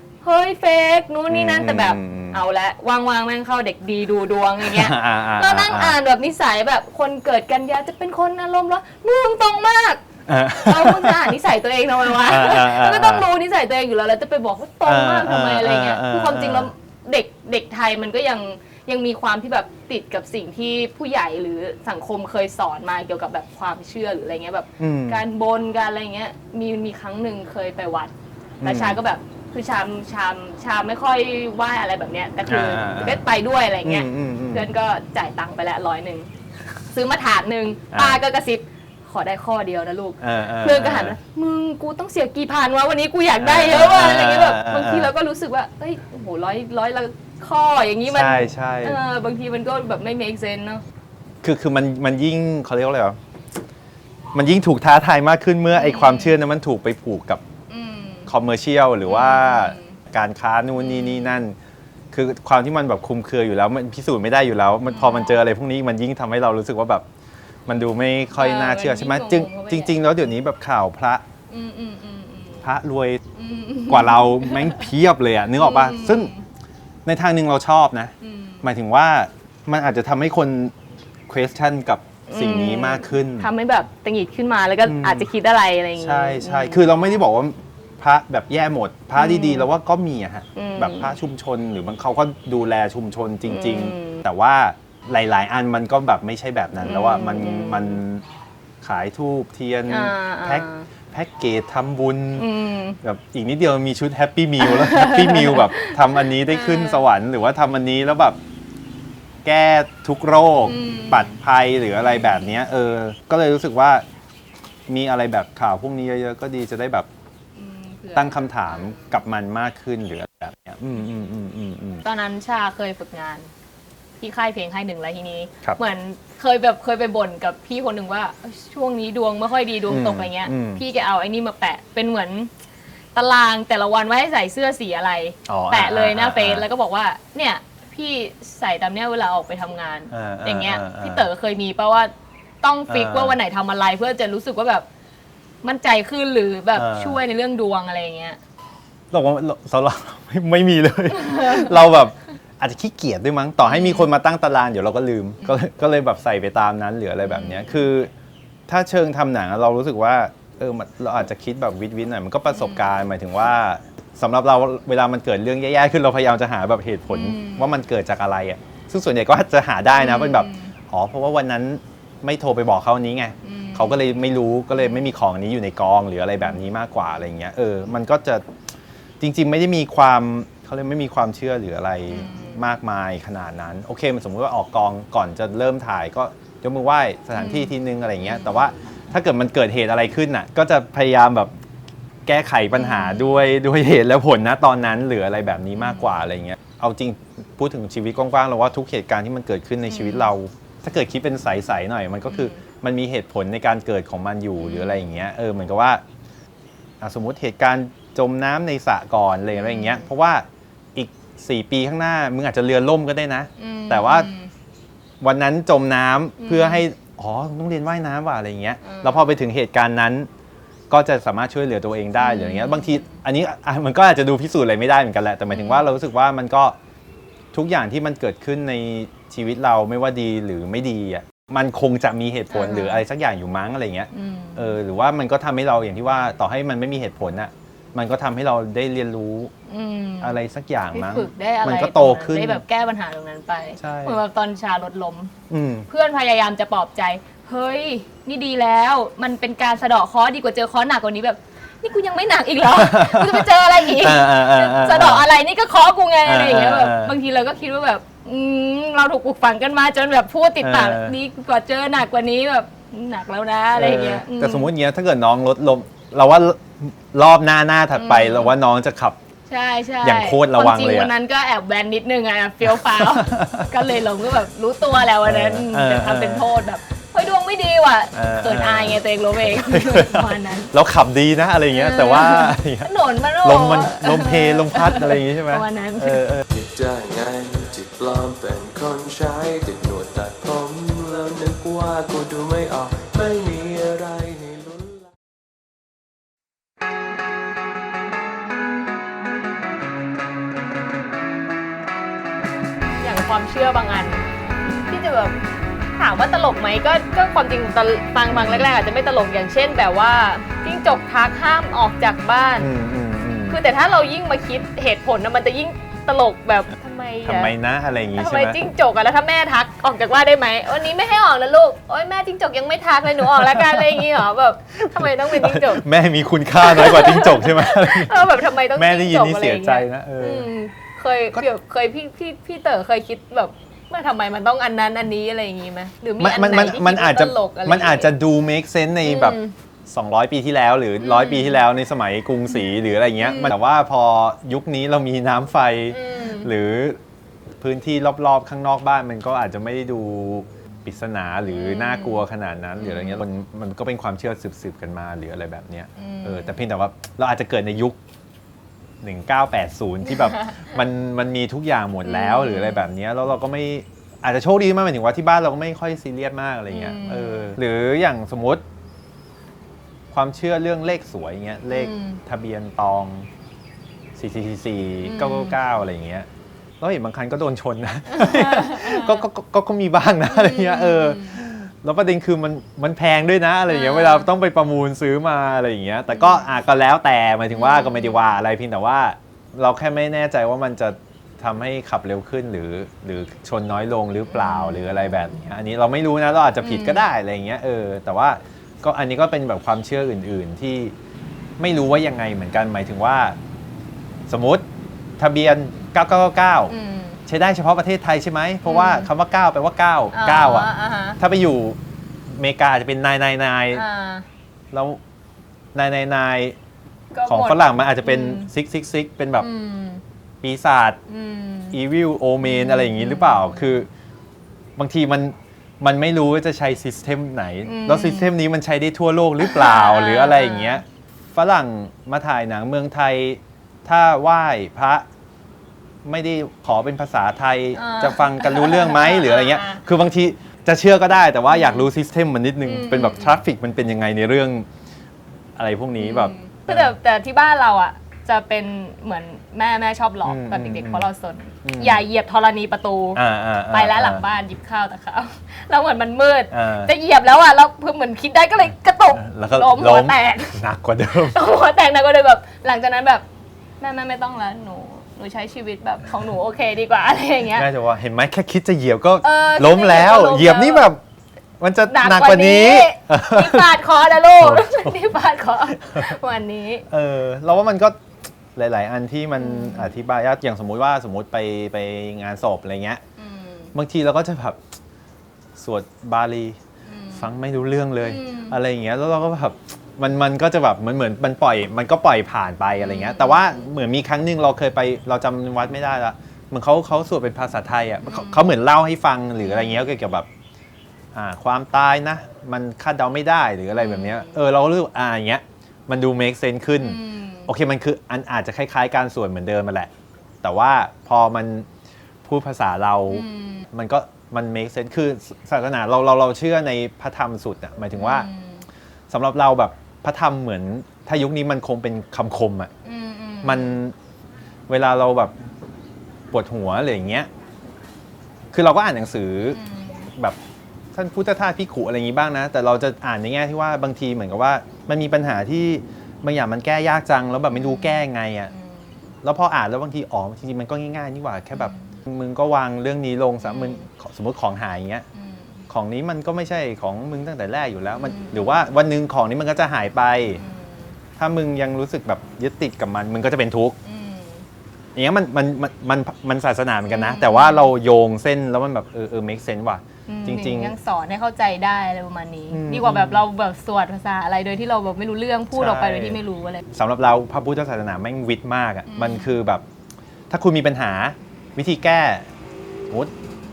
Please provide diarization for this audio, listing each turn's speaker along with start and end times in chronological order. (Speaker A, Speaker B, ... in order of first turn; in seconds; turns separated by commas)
Speaker A: 0.2-10.0, Speaker B: 1.3-2.4, Speaker B: 4.6-6.0, Speaker B: 10.3-11.4, Speaker A: 10.6-36.3, Speaker B: 12.1-13.3, Speaker B: 14.8-16.7, Speaker B: 24.8-25.2, Speaker B: 28.6-29.0, Speaker B: 32.5-33.2, Speaker B: 33.8-34.7, Speaker A: 36.9-50.8, Speaker B: 37.9-38.2, Speaker B: 40.2-41.2, Speaker B: 43.4-45.1, Speaker B: 48.1-49.0, Speaker B: 51.4-53.2, Speaker B: 54.3-57.4, Speaker A: 55.7-56.4, Speaker A: 57.7-58.3, Speaker B: 58.3-61.6, Speaker A: 59.0-60.0, Speaker A: 60.8-61.4, Speaker B: 62.1-67.1, Speaker A: 64.9-65.4, Speaker B: 67.7-71.2, Speaker A: 68.4-70.0, Speaker A: 71.5-72.7, Speaker B: 72.6-73.2, Speaker A: 73.3-74.9, Speaker B: 73.9-76.3, Speaker A: 75.6-76.5, Speaker B: 77.1-80.7, Speaker A: 78.2-78.6, Speaker B: 81.3-83.5, Speaker A: 82.3-86.8, Speaker B: 84.8-85.3, Speaker B: 86.0-98.2, Speaker A: 89.2-89.7, Speaker A: 90.6-91.1, Speaker A: 93.5-94.2, Speaker A: 96.8-98.0, Speaker B: 98.8-102.5, Speaker A: 99.9-100.9, Speaker A: 102.4-103.0, Speaker B: 103.0-108.4, Speaker A: 104.6-107.0, Speaker B: 109.4-114.0, Speaker A: 110.7-111.4, Speaker B: 114.9-117.1, Speaker A: 117.5-119.1, Speaker B: 118.2-122.0, Speaker A: 122.0-123.5, Speaker A: 124.2-132.5, Speaker B: 129.9-130.8, Speaker A: 133.1-144.9, Speaker B: 135.5-136.7, Speaker B: 140.1-141.3, Speaker B: 142.9-143.4, Speaker A: 145.6-148.4, Speaker B: 146.8-147.2, Speaker B: 149.1-158.1, Speaker A: 151.2-151.8, Speaker A: 153.7-154.1, Speaker A: 157.3-157.7, Speaker B: 158.7-178.5, Speaker A: 162.5-162.8, Speaker A: 167.1-167.8, Speaker A: 170.0-170.7, Speaker A: 173.4-174.0, Speaker B: 179.2-191.5, Speaker A: 182.1-182.7, Speaker A: 187.3-189.1, Speaker B: 192.3-206.0, Speaker A: 192.8-193.4, Speaker A: 195.8-196.1, Speaker A: 199.9-200.3, Speaker A: 202.3-202.6, Speaker A: 204.6-205.1, Speaker B: 207.0-214.3, Speaker A: 209.5-210.1, Speaker A: 213.6-214.5, Speaker B: 215.2-220.3, Speaker A: 216.4-216.8, Speaker A: 218.8-219.3, Speaker B: 220.9-226.8, Speaker A: 222.2-223.2, Speaker A: 225.5-225.9, Speaker B: 227.5-239.5, Speaker A: 232.5-233.0, Speaker A: 234.1-234.7, Speaker A: 239.7-240.4, Speaker B: 240.2-242.6, Speaker A: 240.9-245.3, Speaker B: 243.8-244.2, Speaker B: 245.5-245.9, Speaker A: 245.9-264.7, Speaker B: 252.7-255.3, Speaker B: 256.2-257.2, Speaker B: 260.6-261.2, Speaker B: 263.7-269.2, Speaker A: 267.9-268.6, Speaker A: 269.5-280.7, Speaker B: 270.0-271.1, Speaker B: 272.6-273.7, Speaker B: 275.2-276.5, Speaker B: 278.1-282.9, Speaker A: 281.7-286.3, Speaker B: 283.4-286.4, Speaker C: 286.5-295.1, Speaker A: 303.0-304.2, Speaker A: 304.9-305.4, Speaker A: 305.9-312.7, Speaker B: 308.3-308.7, Speaker B: 312.6-313.6, Speaker A: 313.5-317.5, Speaker B: 317.2-318.6, Speaker A: 318.2-325.9, Speaker B: 323.2-324.0, Speaker B: 324.8-330.5, Speaker A: 326.6-338.1, Speaker B: 336.2-347.0, Speaker A: 339.0-339.5, Speaker A: 341.0-341.6, Speaker A: 343.2-343.6, Speaker A: 345.9-346.5, Speaker B: 347.6-358.0, Speaker A: 351.5-352.2, Speaker A: 352.8-353.2, Speaker A: 356.0-356.6, Speaker B: 359.0-368.6, Speaker A: 360.4-360.7, Speaker A: 362.1-362.9, Speaker A: 366.7-367.6, Speaker B: 370.1-373.3, Speaker A: 371.7-372.2, Speaker B: 374.2-376.3, Speaker A: 375.0-375.6, Speaker B: 376.8-400.9, Speaker A: 378.1-379.2, Speaker A: 380.3-381.4, Speaker A: 383.7-384.3, Speaker A: 386.1-386.4, Speaker A: 387.5-388.2, Speaker A: 394.3-395.1, Speaker A: 396.6-397.1, Speaker B: 401.6-403.4, Speaker B: 404.3-404.7, Speaker B: 405.2-406.8, Speaker A: 406.7-407.2, Speaker B: 407.3-413.9, Speaker A: 408.6-409.1, Speaker A: 410.1-411.2, Speaker A: 413.7-414.3, Speaker B: 414.7-415.0, Speaker B: 415.7-416.6, Speaker A: 417.1-418.5, Speaker B: 417.3-419.5, Speaker A: 419.4-420.0, Speaker B: 420.4-421.0, Speaker A: 421.1-421.8, Speaker B: 421.7-423.9, Speaker A: 422.4-423.8, Speaker B: 424.8-435.1, Speaker A: 427.6-428.3, Speaker A: 429.4-430.8, Speaker B: 436.1-444.7, Speaker A: 437.8-439.9, Speaker A: 441.5-441.9, Speaker A: 442.6-443.4, Speaker B: 445.6-446.9, Speaker A: 446.0-460.6, Speaker B: 450.2-451.1, Speaker B: 451.6-452.1, Speaker B: 453.1-454.2, Speaker B: 456.5-456.9, Speaker B: 459.1-461.4, Speaker A: 461.2-463.2, Speaker A: 463.8-467.7, Speaker B: 467.5-471.0, Speaker A: 469.2-470.9, Speaker B: 471.6-473.8, Speaker A: 471.9-476.9, Speaker B: 474.4-475.1, Speaker B: 476.9-478.0, Speaker B: 478.6-483.0, Speaker A: 479.4-479.9, Speaker A: 483.2-483.7, Speaker B: 483.7-484.6, Speaker B: 485.6-486.6, Speaker A: 486.9-487.3, Speaker B: 487.1-500.3, Speaker A: 488.0-488.6, Speaker A: 492.8-493.7, Speaker A: 498.0-498.5, Speaker A: 499.4-499.9, Speaker B: 501.1-509.9, Speaker A: 503.8-504.4, Speaker A: 506.8-507.5, Speaker B: 510.4-511.7, Speaker B: 512.2-518.3, Speaker A: 513.1-513.7, Speaker A: 518.0-518.7, Speaker B: 519.1-522.7, Speaker A: 522.9-523.8, Speaker B: 523.4-524.0, Speaker B: 524.7-525.4, Speaker B: 526.3-527.3, Speaker B: 528.5-529.6, Speaker A: 529.5-530.1, Speaker B: 530.9-538.5, Speaker A: 537.5-538.9, Speaker B: 539.2-545.0, Speaker A: 541.5-542.0, Speaker A: 543.4-543.9, Speaker A: 545.1-545.7, Speaker B: 545.7-550.4, Speaker A: 548.0-548.6, Speaker A: 550.4-550.9, Speaker B: 551.2-553.8, Speaker A: 553.8-554.5, Speaker B: 555.0-560.7, Speaker A: 556.9-557.7, Speaker A: 560.1-566.6, Speaker B: 562.5-563.2, Speaker B: 565.5-569.6, Speaker A: 568.9-569.3, Speaker B: 570.3-572.3